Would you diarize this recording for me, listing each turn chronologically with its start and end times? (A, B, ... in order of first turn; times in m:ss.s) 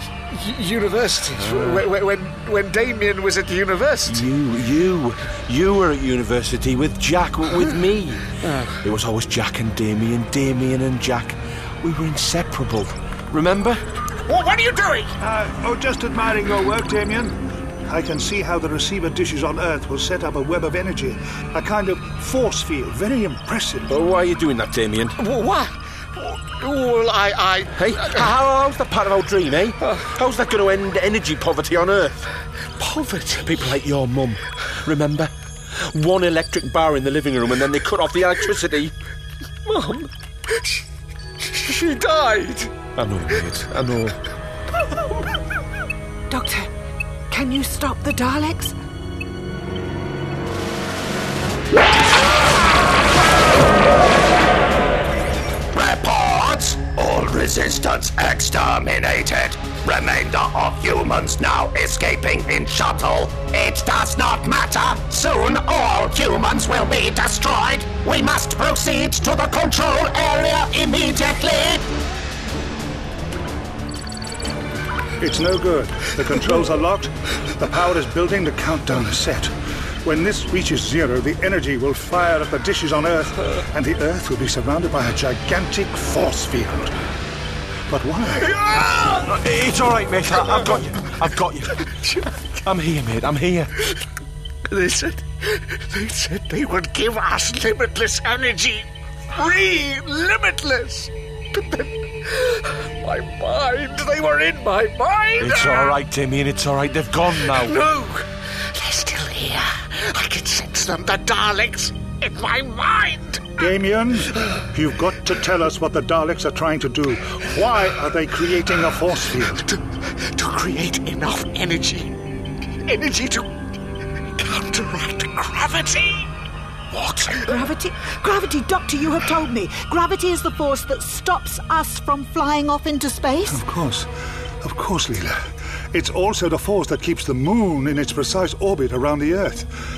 0:00.3-0:04.3 A
0:01.4-0:01.8 B
0:04.0-0:08.3 B
0:08.4-0:08.8 A
0:08.8-0:13.8 B
0:14.3-0:15.1 A
0:15.2-0:24.0 C
0:23.9-0:25.2 B
0:25.2-0:28.3 A
0:27.8-0:32.2 B
0:32.8-0:33.8 A
0:33.4-0:38.9 B
0:39.7-0:40.8 A
0:41.4-0:42.9 A
0:42.9-0:44.2 B
0:46.3-0:46.7 D
0:47.3-0:48.7 D
0:55.7-1:11.8 E
1:15.2-1:26.9 C
1:27.9-1:28.5 C
1:28.6-1:29.2 A
1:29.2-1:31.8 B
1:31.8-1:32.5 A
1:32.6-1:33.7 B
1:34.7-1:46.0 A
1:45.4-1:47.8 B
1:47.3-1:53.6 A
1:53.6-1:59.6 C
1:59.6-2:02.1 A
2:02.9-2:03.5 A
2:04.4-2:06.3 A
2:07.4-2:13.6 D
2:13.5-2:14.1 C
2:14.6-2:19.7 C